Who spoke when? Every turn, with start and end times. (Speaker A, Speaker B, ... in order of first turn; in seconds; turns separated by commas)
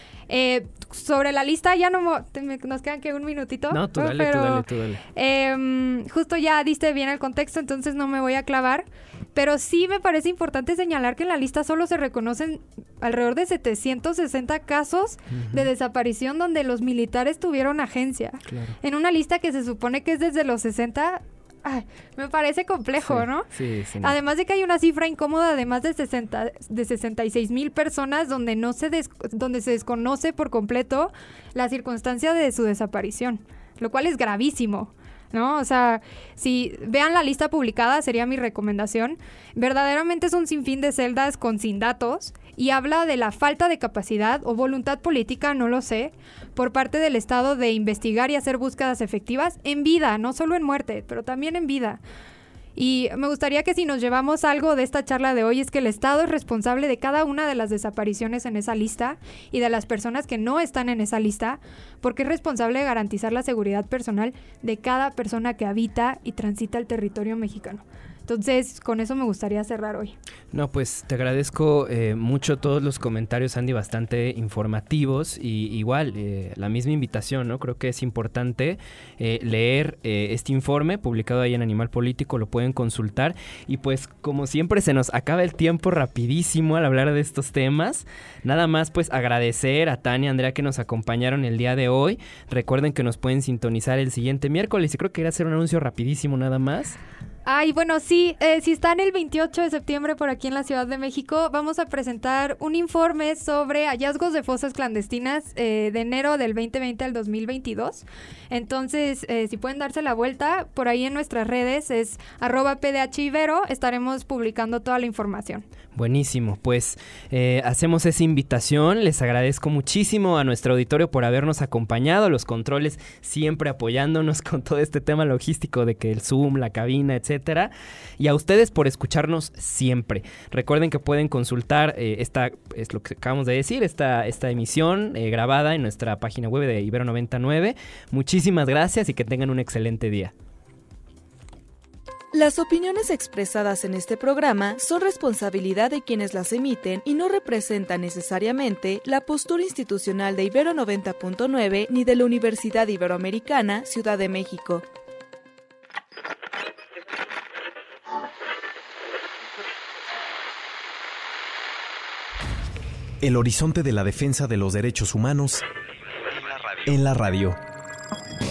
Speaker A: 0.3-23.5, Speaker B: 3.7-5.0, Speaker B: 15.3-15.7, Speaker B: 18.5-18.8, Speaker B: 23.0-24.1, Speaker A: 24.0-52.0, Speaker A: 52.8-70.1, Speaker B: 70.5-97.0, Speaker A: 97.4-115.6, Speaker B: 116.0-140.3, Speaker C: 142.3-154.8, Speaker D: 163.2-165.6, Speaker D: 166.3-167.6